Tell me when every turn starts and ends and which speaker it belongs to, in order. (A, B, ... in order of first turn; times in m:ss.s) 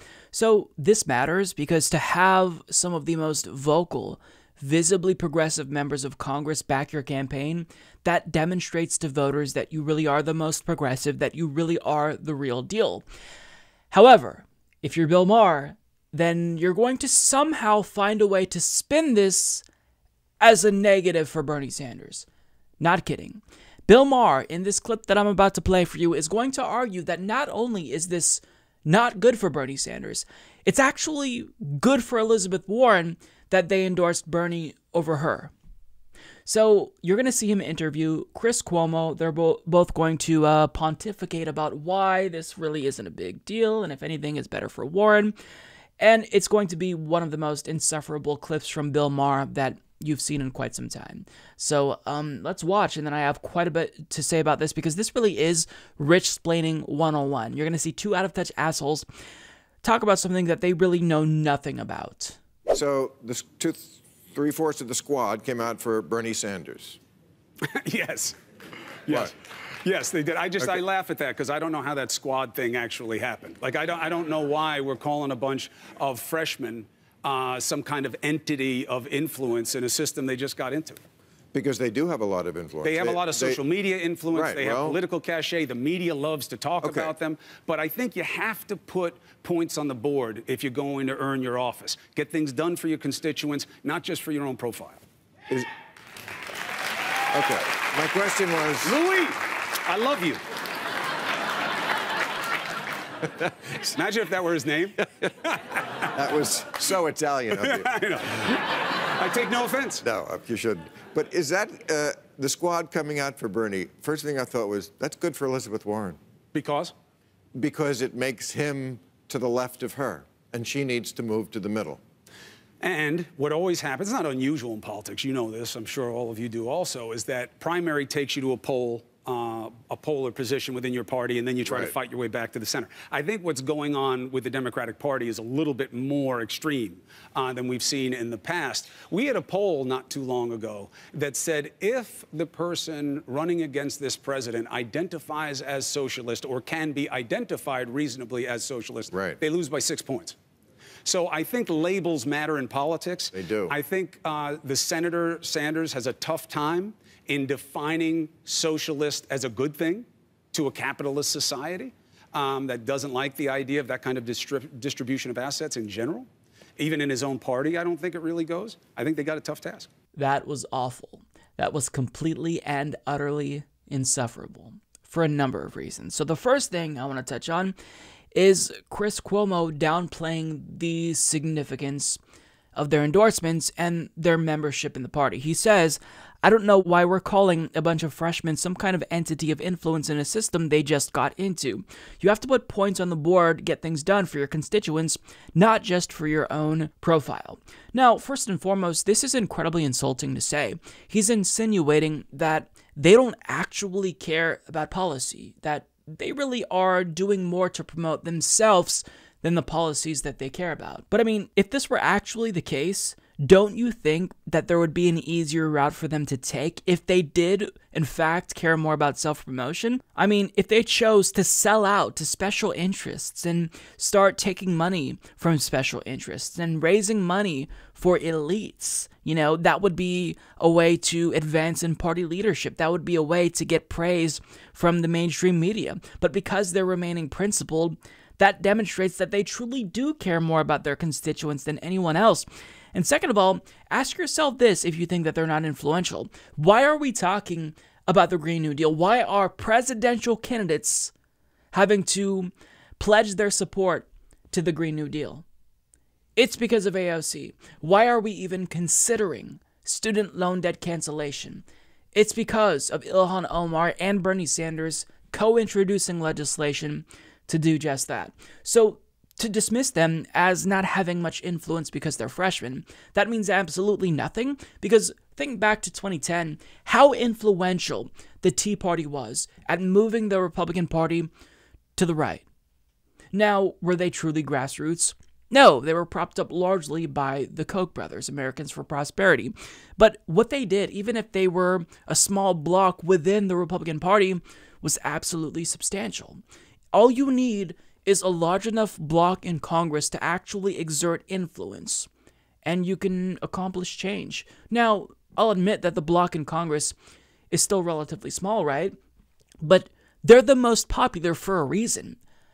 0:00.3-0:13.0 A
0:13.9-0:19.6 A
0:20.4-0:22.3 A
0:22.8-0:35.5 A
0:36.4-0:45.3 A
0:46.0-0:59.1 A
0:59.8-1:02.4 A
1:02.7-1:07.0 B
1:07.7-1:08.4 C
1:09.0-1:21.0 C
1:21.5-1:23.6 B
1:22.8-1:35.0 C
1:24.3-1:25.0 B
1:26.8-1:27.1 B
1:37.3-1:39.0 B
1:38.8-1:40.4 C
1:43.8-1:46.0 C
1:46.1-1:47.9 B
1:47.5-1:50.0 C
1:50.0-1:56.2 B
1:56.5-1:56.9 C
1:57.5-2:02.0 B
2:02.8-2:30.4 C
2:11.6-2:11.9 B
2:29.1-2:29.4 B
2:31.0-2:49.9 C
2:33.3-2:33.7 B
2:50.1-2:57.7 A
2:58.3-3:02.2 A
3:02.7-4:11.1 A
4:11.7-4:15.4 A
4:16.4-4:41.3 A
4:42.0-4:42.4 A
4:43.3-4:56.4 A
4:56.9-5:02.1 A
5:02.6-5:06.9 A
5:07.5-5:08.9 A
5:09.6-5:12.2 A